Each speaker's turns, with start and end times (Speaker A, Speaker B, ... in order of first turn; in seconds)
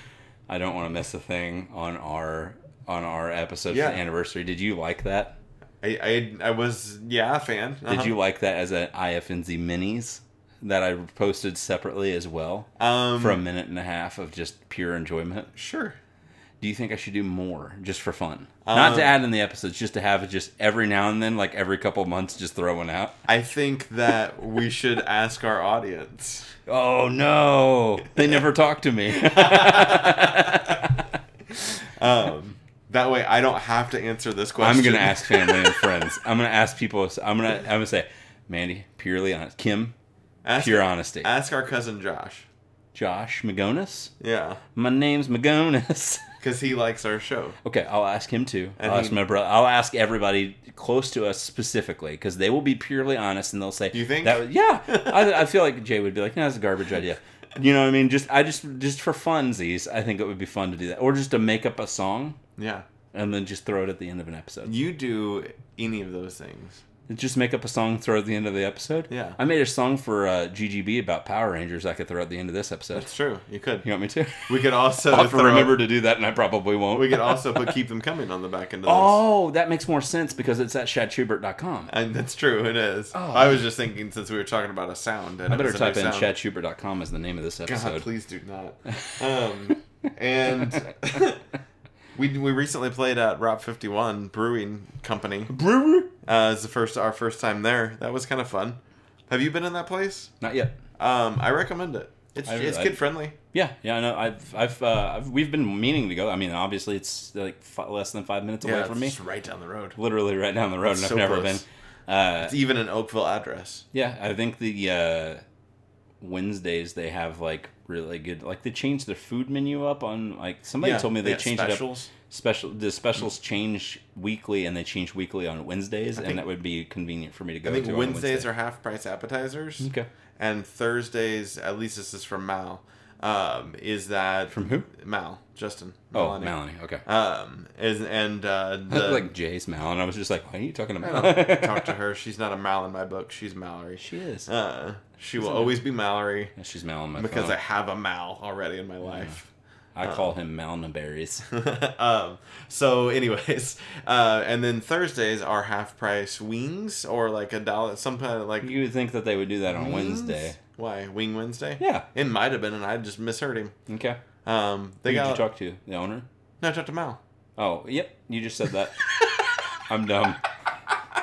Speaker A: 0.5-5.4, 7.9-15.5, 16.6-23.2, 26.7-31.0, 34.6-40.0, 40.6-41.3, 42.9-44.1, 44.8-46.2, 47.6-62.4, 63.1-64.7, 67.1-73.1, 73.8-77.7, 78.8-81.9, 83.1-83.6, 85.5-88.1, 88.9-89.2, 95.5-96.1, 100.4-100.8, 102.5-103.0, 103.5-109.2, 110.0-112.5, 113.9-115.4, 116.2-128.5, 129.8-130.1, 134.5-134.9, 136.1-137.0, 138.9-141.9, 144.0-144.5, 145.4-145.8, 146.6-147.6, 149.9-151.5, 158.6-160.6, 161.8-162.1, 163.9-164.2, 165.1-166.3, 167.6-169.0, 169.9-170.4
Speaker B: 3.7-4.0, 5.8-8.1, 12.8-13.4, 15.6-16.0, 18.6-19.1, 23.3-26.5, 29.2-30.6, 32.0-35.9, 40.4-42.5, 44.2-44.6, 46.4-47.6, 48.8-49.2, 53.9-55.3, 62.6-62.9, 64.7-66.8, 69.1-69.4, 72.9-73.9, 74.4-75.8, 76.9-79.2, 81.9-86.3, 87.7-91.4, 92.2-95.5, 96.2-100.3, 101.0-103.4, 108.6-110.0, 110.9-111.6, 112.4-113.8, 120.8-122.1, 126.2-126.4, 127.6-129.9, 130.4-139.3, 141.0-146.5, 147.2-149.5, 150.0-150.3, 151.5-158.7, 159.7-163.7, 164.4-165.5, 166.6-167.2